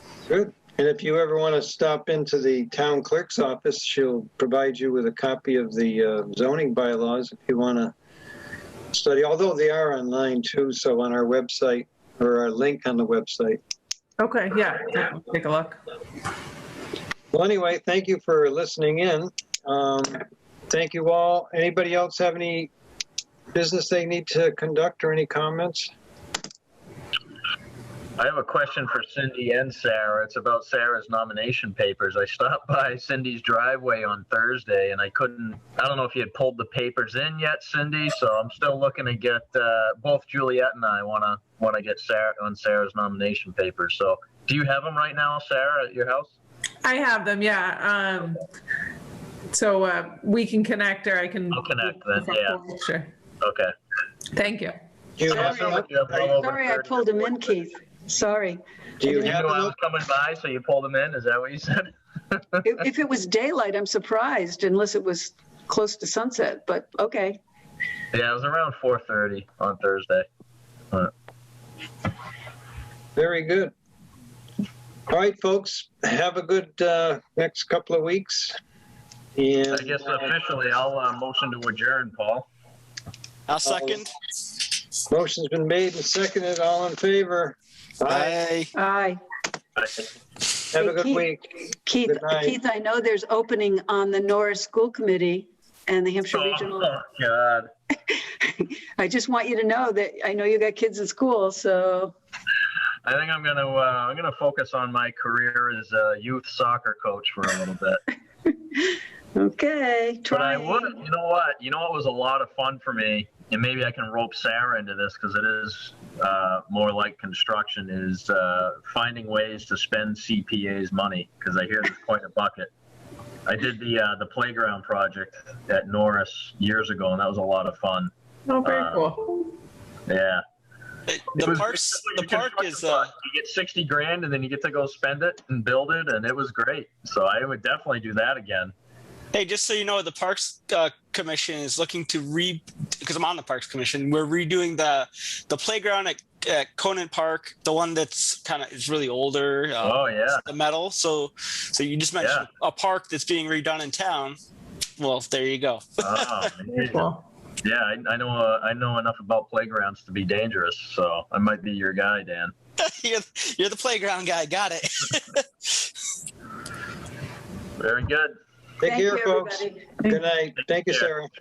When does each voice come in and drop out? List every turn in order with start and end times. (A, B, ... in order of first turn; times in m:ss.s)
0:00.3-0:07.9 A
0:08.9-0:13.6 A
0:14.2-0:15.8 B
0:17.3-0:22.7 A
0:23.5-0:25.9 A
0:28.2-0:46.3 C
0:46.8-0:48.4 B
0:49.5-0:53.1 B
0:51.5-0:52.6 C
0:53.4-0:53.7 C
0:54.3-0:54.8 B
0:55.2-0:56.0 A
0:55.3-0:57.3 C
0:55.3-0:59.3 D
0:59.0-0:59.7 A
0:59.0-1:02.6 C
1:02.6-1:07.4 D
1:08.1-1:10.3 C
1:13.2-1:13.7 A
1:15.1-1:18.6 A
1:19.4-1:20.3 A
1:19.7-1:22.5 C
1:23.5-1:24.1 E
1:23.6-1:24.0 A
1:25.1-1:28.4 A
1:28.1-1:28.7 E
1:28.8-1:29.2 D
1:29.8-1:30.1 C
1:30.7-1:31.5 A
1:30.8-1:31.3 D
1:31.8-1:36.9 D
1:32.0-1:32.6 A
1:36.3-1:37.7 C
1:38.1-1:42.1 D
1:43.0-1:48.0 C
1:49.4-1:51.0 D
1:50.3-2:02.7 C
2:03.5-2:08.1 C
2:08.5-2:09.4 B
2:08.6-2:09.1 C
2:10.1-2:10.4 C
2:11.1-2:13.1 E
2:11.4-2:18.7 C
2:19.3-2:34.4 E
2:29.8-2:30.4 C
2:32.2-2:32.5 C
2:35.0-2:36.5 E
2:36.0-2:37.1 C
2:36.7-2:37.2 B
2:37.6-2:42.5 C
2:42.8-2:45.9 E
2:47.8-2:48.4 C
2:48.8-2:51.3 A
2:48.8-2:50.0 D